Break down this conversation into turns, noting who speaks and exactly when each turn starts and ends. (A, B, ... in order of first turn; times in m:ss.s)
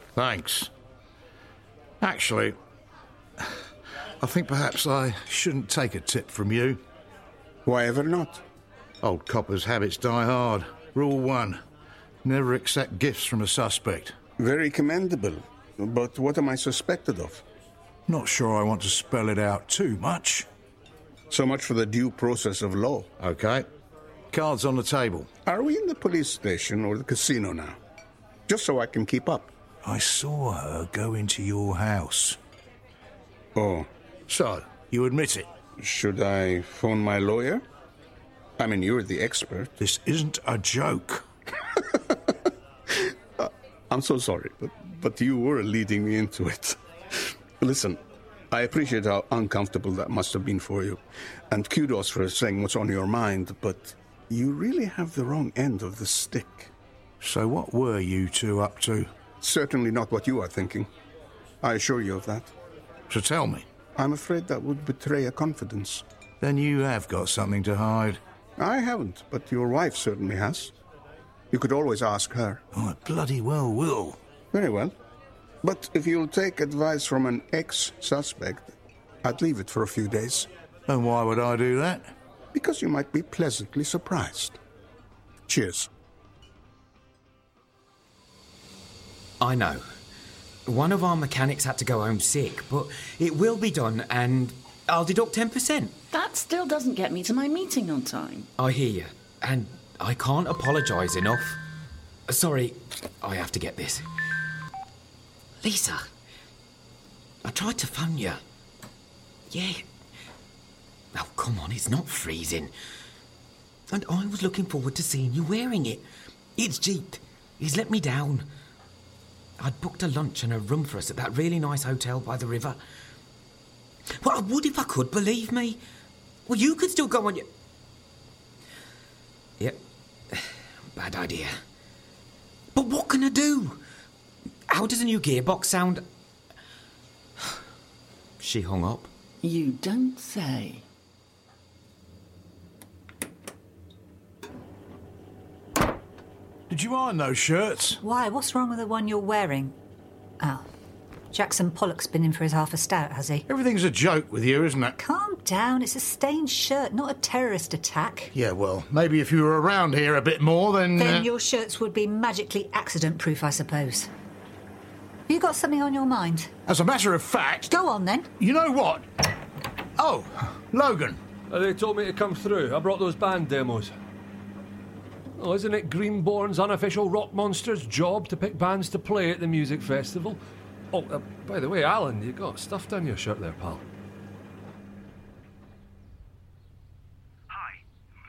0:00.1-0:00.7 A
0:02.0-0:02.6 A
0:04.2-0:06.8 A
0:07.6-0:08.4 B
0:09.0-0:11.6 A
0:12.2-0:14.2 A
0:14.4-0:17.4 B
0:18.1-0:20.5 A
0:21.3-0:23.1 B
0:23.2-0:23.7 A
0:24.3-0:25.3 A
0:25.4-0:27.8 B
0:28.5-0:29.5 B
0:29.8-0:32.4 A
0:33.6-0:33.9 B
0:34.3-0:35.5 A
0:35.8-0:37.6 B
0:38.6-0:39.7 B
0:39.8-0:41.2 A
0:42.9-0:56.7 B
0:57.2-0:59.1 A
0:59.4-1:00.9 B
1:01.6-1:02.5 B
1:03.1-1:03.7 A
1:04.0-1:06.0 B
1:06.4-1:08.2 A
1:08.6-1:10.7 B
1:11.5-1:12.6 B
1:12.7-1:14.2 A
1:14.5-1:15.0 B
1:15.6-1:20.5 B
1:20.9-1:22.1 A
1:22.5-1:24.6 B
1:25.5-1:25.9 B
1:29.4-1:29.9 C
1:30.7-1:36.0 C
1:36.1-1:38.4 D
1:38.6-1:41.6 C
1:42.3-1:44.1 C
1:45.6-1:46.1 C
1:47.4-1:48.4 C
1:49.5-1:49.8 C
1:51.1-1:52.7 C
1:53.9-1:56.1 C
1:56.6-1:58.5 C
1:59.6-2:02.8 C
2:04.2-2:05.8 C
2:06.5-2:07.5 C
2:09.6-2:11.6 C
2:12.8-2:13.8 C
2:14.7-2:16.1 C
2:18.4-2:19.1 C
2:19.4-2:20.8 D
2:26.7-2:28.0 A
2:28.0-2:29.8 E
2:30.4-2:30.7 E
2:31.3-2:33.5 E
2:33.5-2:35.0 A
2:35.0-2:38.3 E
2:38.3-2:41.3 A
2:41.0-2:44.1 E
2:45.3-2:46.5 E
2:46.7-2:47.7 A
2:47.7-2:48.3 E
2:48.4-2:49.1 A
2:50.0-2:51.2 A
2:51.5-2:54.0 F
2:55.4-3:00.4 F
3:00.9-3:03.8 F